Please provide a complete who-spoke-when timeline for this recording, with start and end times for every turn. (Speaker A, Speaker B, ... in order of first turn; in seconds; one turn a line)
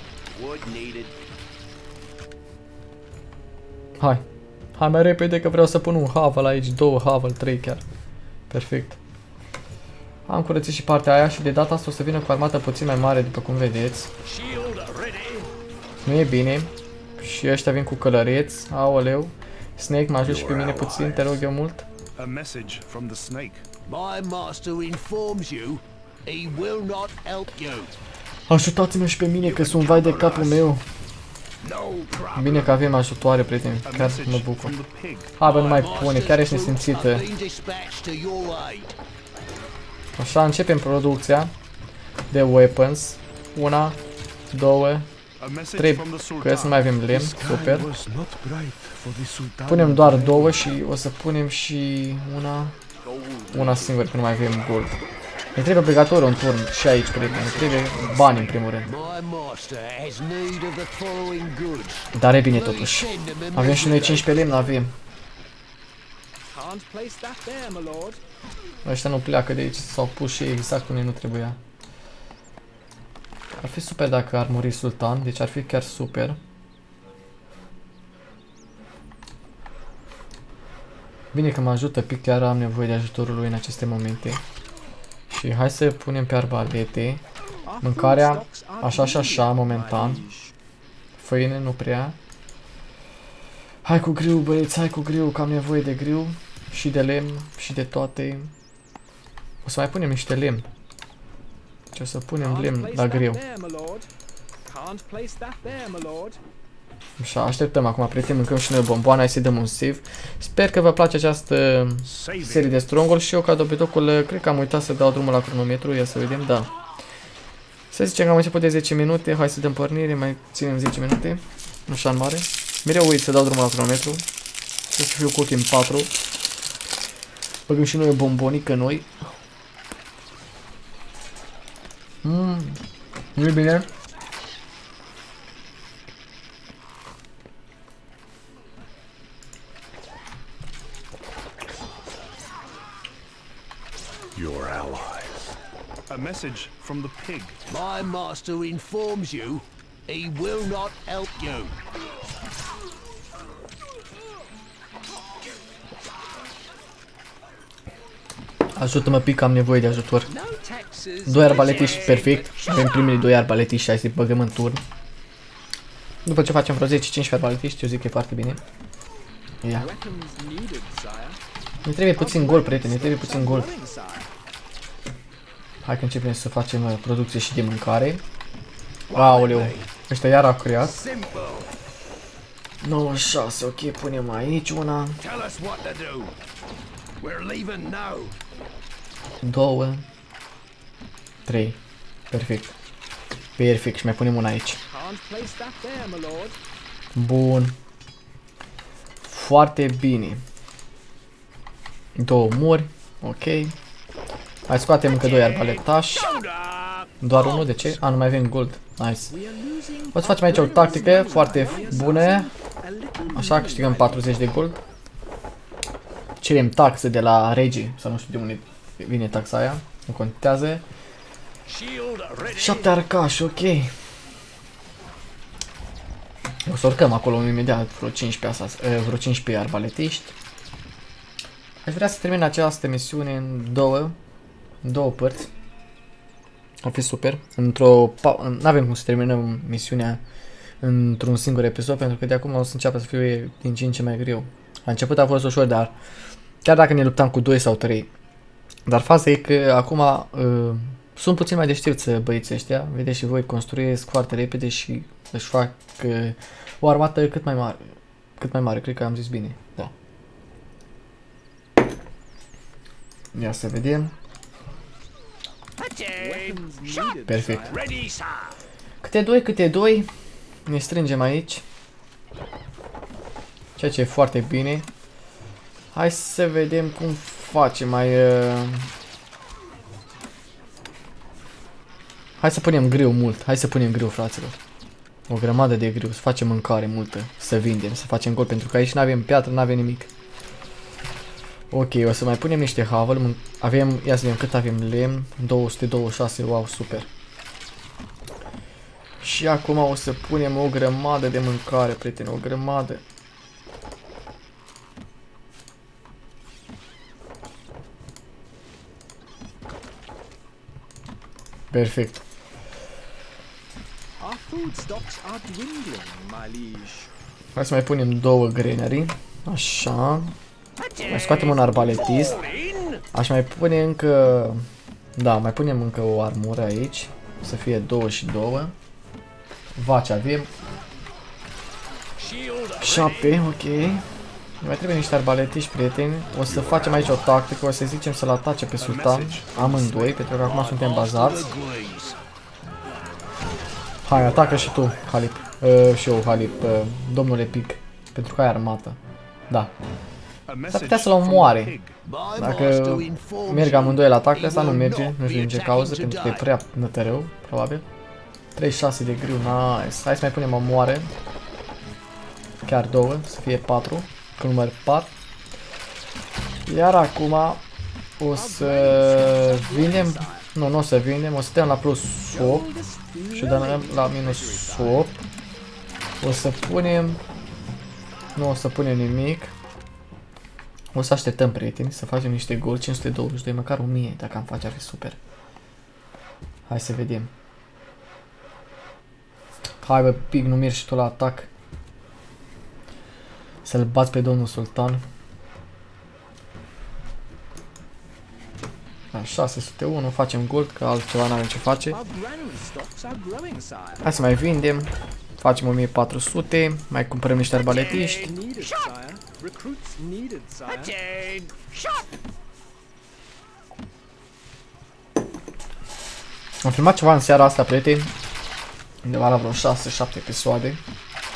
Speaker A: 0.3-1.1
Speaker B: 4.8-7.8
Speaker B: 8.5-9.0
Speaker B: 10.3-14.1
Speaker A: 14.3-15.5
Speaker B: 16.0-21.9
Speaker A: 20.4-21.1
Speaker C: 22.2-23.6
Speaker A: 23.9-27.9
Speaker B: 28.5-30.8
Speaker A: 29.4-30.7
Speaker A: 31.6-32.8
Speaker B: 32.4-34.8
Speaker C: 33.9-35.4
Speaker B: 35.4-37.3
Speaker A: 35.4-38.9
Speaker B: 40.2-41.5
Speaker B: 42.3-44.0
Speaker B: 44.5-45.1
Speaker C: 45.4-50.5
Speaker B: 45.7-47.9
Speaker B: 49.7-52.8
Speaker A: 53.0-54.0
Speaker B: 53.5-55.0
Speaker B: 55.6-58.9
Speaker A: 57.1-64.6
Speaker B: 62.1-64.9
Speaker D: 66.5-68.2
Speaker B: 68.8-71.6
Speaker B: 73.5-76.4
Speaker B: 81.3-84.4
Speaker B: 85.3-87.2
Speaker D: 87.7-90.5
Speaker B: 87.8-90.2
Speaker B: 91.2-92.2
Speaker B: 93.8-98.5
Speaker B: 99.6-100.7
Speaker B: 101.9-103.4
Speaker D: 102.4-104.1
Speaker D: 104.7-106.4
Speaker B: 107.2-116.7
Speaker A: 112.3-112.5
Speaker B: 117.9-124.2
Speaker B: 124.9-126.1
Speaker B: 127.7-129.1
Speaker B: 132.2-132.8
Speaker B: 133.4-133.9
Speaker C: 144.3-145.3
Speaker C: 146.1-147.6
Speaker A: 147.7-151.8
Speaker B: 158.8-160.3
Speaker A: 160.3-162.6
Speaker B: 161.3-164.8
Speaker D: 161.5-161.8
Speaker B: 166.2-168.6
Speaker B: 169.6-169.9
Speaker D: 169.7-171.4
Speaker B: 171.8-173.7
Speaker D: 172.1-174.3
Speaker B: 175.8-178.2
Speaker A: 179.1-179.9
Speaker B: 179.1-181.0
Speaker A: 180.8-181.7
Speaker B: 182.8-185.2
Speaker A: 185.2-186.3
Speaker A: 187.2-188.4
Speaker B: 189.4-190.1
Speaker B: 191.5-191.8
Speaker B: 192.3-192.8
Speaker B: 193.6-194.8
Speaker D: 194.9-196.6
Speaker B: 197.1-197.8
Speaker B: 199.2-200.4
Speaker B: 202.2-203.7
Speaker B: 204.7-206.3
Speaker A: 205.3-207.8
Speaker B: 207.2-209.4
Speaker D: 209.3-214.3
Speaker B: 210.1-212.5
Speaker A: 211.5-212.0
Speaker B: 213.3-214.8
Speaker B: 216.4-220.8
Speaker A: 221.7-222.6
Speaker B: 222.5-223.9
Speaker B: 226.7-230.4
Speaker B: 231.8-234.2
Speaker B: 234.8-235.5
Speaker B: 236.8-240.2
Speaker B: 240.8-245.9
Speaker B: 246.6-248.1
Speaker B: 248.9-259.9
Speaker B: 263.3-264.1
Speaker A: 265.8-266.6
Speaker D: 266.2-267.9
Speaker B: 267.3-267.7
Speaker A: 267.7-268.5
Speaker B: 269.0-270.1
Speaker B: 270.7-271.6
Speaker B: 273.8-274.9
Speaker B: 275.9-278.9
Speaker B: 282.4-284.6
Speaker B: 285.3-290.1
Speaker B: 291.7-297.1
Speaker B: 299.2-303.0
Speaker B: 311.7-312.2
Speaker D: 314.2-317.1
Speaker B: 317.6-320.4
Speaker A: 320.9-323.0
Speaker B: 321.0-322.4
Speaker B: 323.1-324.6
Speaker B: 325.2-328.7
Speaker B: 329.8-330.5
Speaker A: 332.2-333.0
Speaker B: 332.8-334.0
Speaker B: 334.6-341.6
Speaker C: 338.8-340.2
Speaker A: 339.8-342.2
Speaker B: 344.1-349.0
Speaker C: 350.5-352.0
Speaker B: 350.7-351.8
Speaker A: 352.0-356.5
Speaker B: 352.4-357.9
Speaker B: 358.6-361.1
Speaker B: 362.6-365.1
Speaker B: 366.7-367.6
Speaker B: 368.2-372.7
Speaker D: 368.3-370.5
Speaker D: 372.3-375.1
Speaker B: 373.3-375.2
Speaker B: 376.2-377.2
Speaker B: 378.4-379.5
Speaker B: 380.9-385.2
Speaker B: 386.7-387.3
Speaker B: 389.8-391.5
Speaker B: 393.6-395.0
Speaker B: 399.1-402.0
Speaker D: 401.9-404.0
Speaker B: 404.0-408.4
Speaker D: 407.7-411.0
Speaker A: 410.8-411.8
Speaker B: 416.6-418.1
Speaker B: 419.0-420.8